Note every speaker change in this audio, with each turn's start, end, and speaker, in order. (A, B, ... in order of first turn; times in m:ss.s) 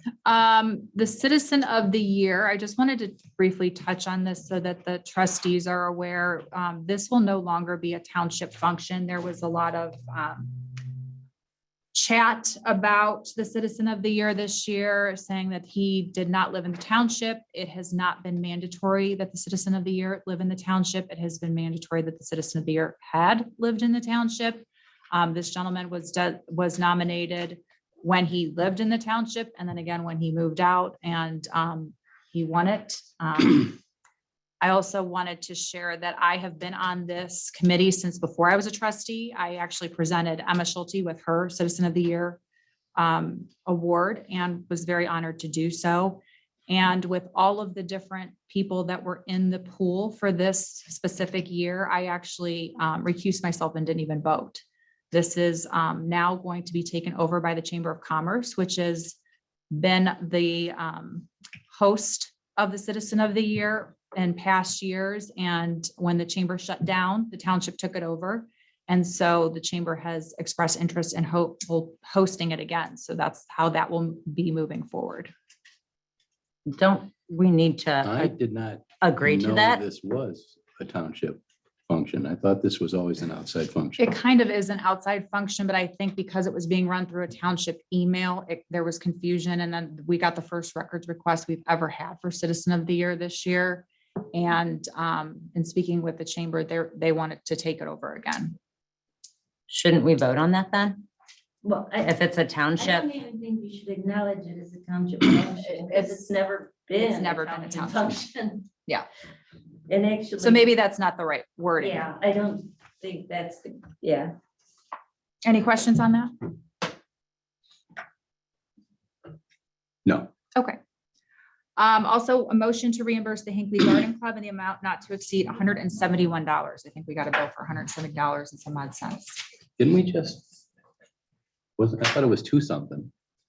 0:00.2-0:10.8 A
0:11.9-0:33.8 A
0:34.6-0:42.4 A
0:43.0-0:59.2 A
0:59.7-1:15.3 A
1:16.7-1:18.3 B
1:18.0-1:24.0 C
1:19.0-1:19.8 B
1:24.0-1:38.6 A
1:39.7-1:41.0 B
1:41.6-1:42.2 D
1:42.0-1:43.1 B
1:42.8-1:48.7 D
1:45.6-1:46.3 A
1:47.0-1:48.1 A
1:49.9-1:50.7 D
1:50.4-1:52.0 A
1:51.8-1:54.3 D
1:55.4-1:56.3 A
2:00.0-2:00.3 C
2:01.8-2:09.4 A
2:09.8-2:10.6 C
2:11.8-2:13.1 C